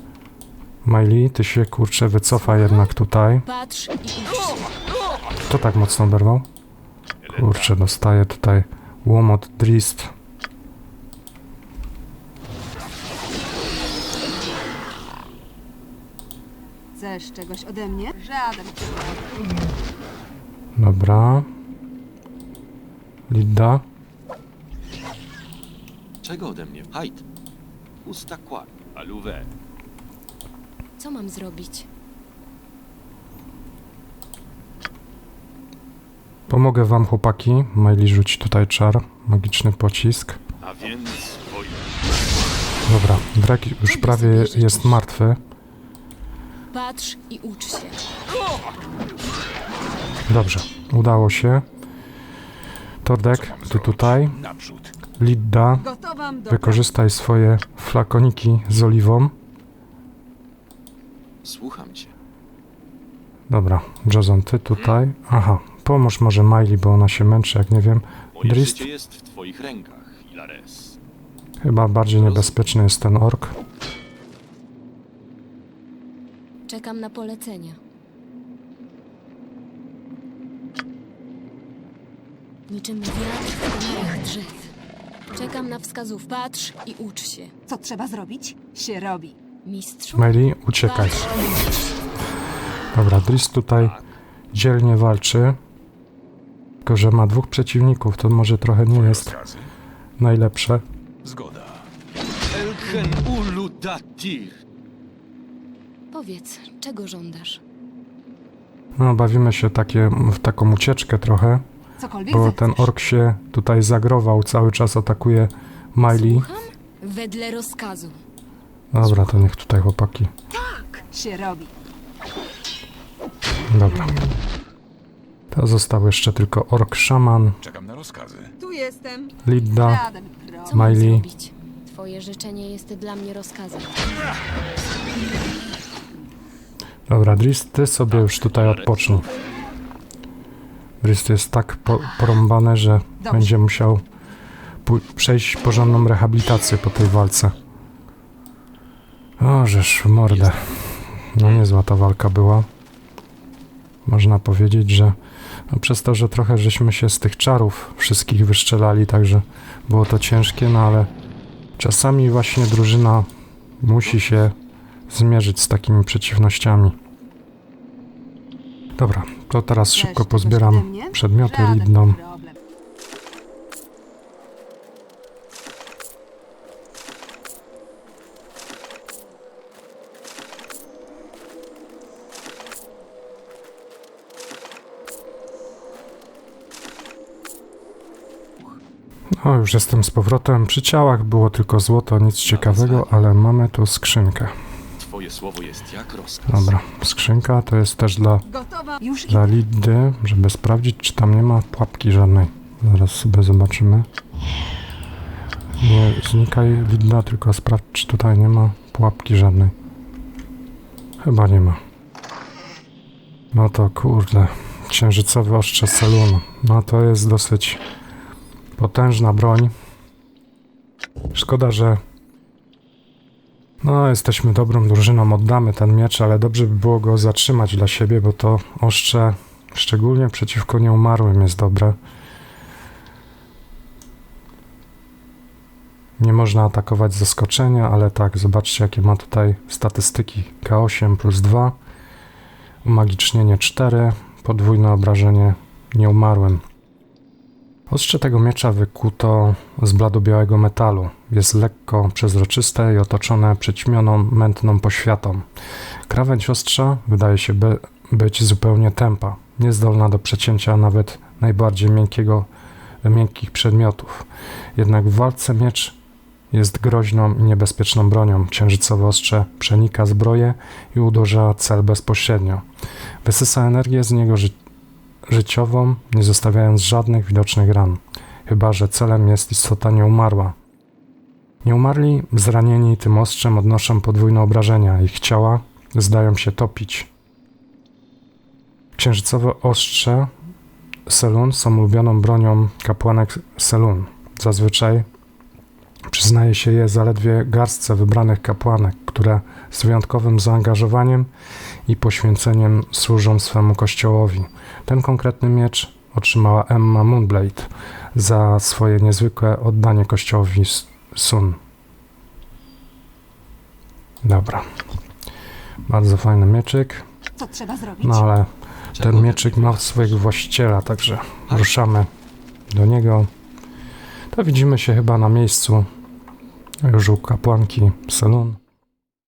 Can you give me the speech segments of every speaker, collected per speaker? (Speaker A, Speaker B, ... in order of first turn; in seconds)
Speaker A: 0.8-3.5, 5.5-6.5, 7.3-10.1, 20.8-21.5, 23.3-23.8, 36.5-40.4, 42.8-45.4, 50.3-51.6, 53.0-54.4, 55.1-55.9, 56.5-59.3, 63.5-68.8, 71.6-73.5, 90.2-91.3, 92.9-94.0, 94.5-95.6, 96.8-99.4, 100.2-100.8, 109.0-111.6, 112.3-116.5, 118.9-120.3, 123.7-124.2, 125.5-127.6, 129.4-130.1, 130.7-131.2, 137.1-139.3, 141.0-144.0, 144.8-147.5, 149.4-152.7, 154.0-155.2, 155.7-161.1, 161.8-163.3, 163.8-164.6, 165.1-166.9, 169.0-172.2, 189.4-194.5, 196.5-198.5, 199.3-204.1, 205.8-209.7, 211.2-211.8, 213.5-217.8, 218.8-219.7, 221.3-222.0, 223.8-232.0, 236.2-241.8, 242.8-246.6, 247.9-255.4, 256.1-262.5, 263.0-266.0, 266.5-272.6, 273.2-274.5, 275.2-280.5, 281.6-287.1, 288.9-290.3, 291.1-295.1, 296.1-301.3, 301.9-311.6, 314.2-314.6, 315.8-317.0, 318.0-322.1, 322.7-323.3, 324.3-325.8, 326.8-328.6
Speaker B: 2.4-2.9, 3.4-4.7, 31.0-31.9, 43.8-45.0, 46.7-48.1, 76.7-77.8, 82.7-84.7, 85.3-87.5, 89.6-91.9, 106.1-107.6, 116.1-118.2, 120.5-121.0, 130.7-134.1
Speaker C: 16.9-19.3, 55.8-56.8, 87.7-89.4, 112.0-112.8, 121.1-121.7, 128.6-130.7, 169.9-172.6, 198.5-199.4, 317.4-318.2
Speaker D: 26.2-27.2, 28.0-29.5, 40.6-42.0, 61.4-62.1, 68.4-71.0, 72.2-72.6, 102.5-104.5, 138.1-139.2, 150.3-150.6, 192.4-193.1, 195.0-196.7, 318.9-320.1
Speaker E: 53.3-55.0, 98.9-99.7, 101.2-101.9, 127.6-128.5